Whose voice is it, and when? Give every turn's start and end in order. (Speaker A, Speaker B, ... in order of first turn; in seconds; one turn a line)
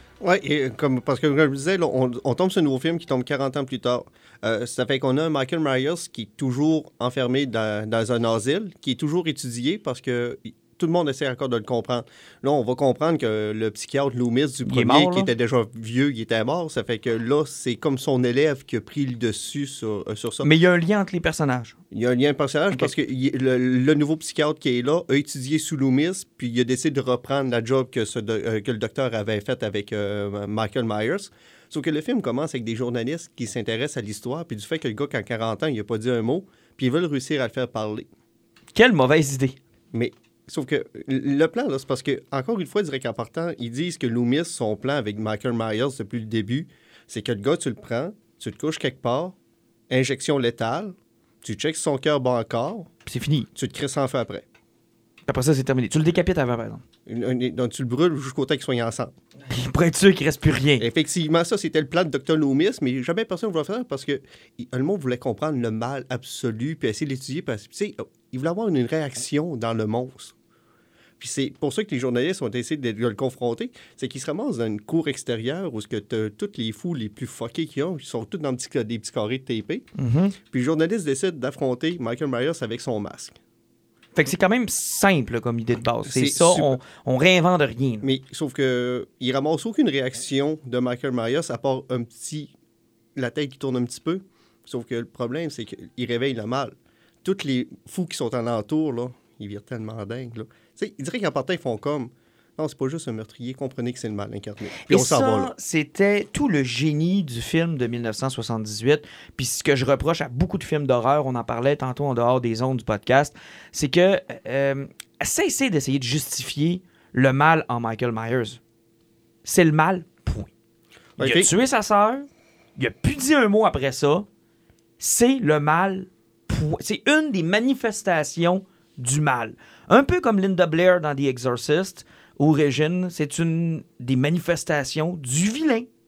Speaker A: 0.2-20.5
Speaker B: 14.7-15.3
Speaker B: 20.4-21.7
Speaker A: 21.9-38.0
Speaker B: 38.7-39.6
Speaker A: 39.9-49.3
Speaker A: 49.9-52.9
Speaker B: 53.0-53.5
Speaker A: 53.5-54.4
Speaker B: 55.3-56.8
Speaker A: 57.0-59.1
Speaker B: 59.5-60.8
Speaker A: 60.8-70.3
Speaker A: 71.2-79.8
Speaker B: 80.0-80.3
Speaker A: 80.5-83.4
Speaker B: 84.1-88.1
Speaker A: 86.0-86.7
Speaker A: 88.0-92.5
Speaker A: 93.1-105.5
Speaker B: 104.8-118.6
Speaker B: 119.4-120.5
Speaker A: 121.2-121.5
Speaker B: 121.2-124.2
Speaker B: 125.0-135.9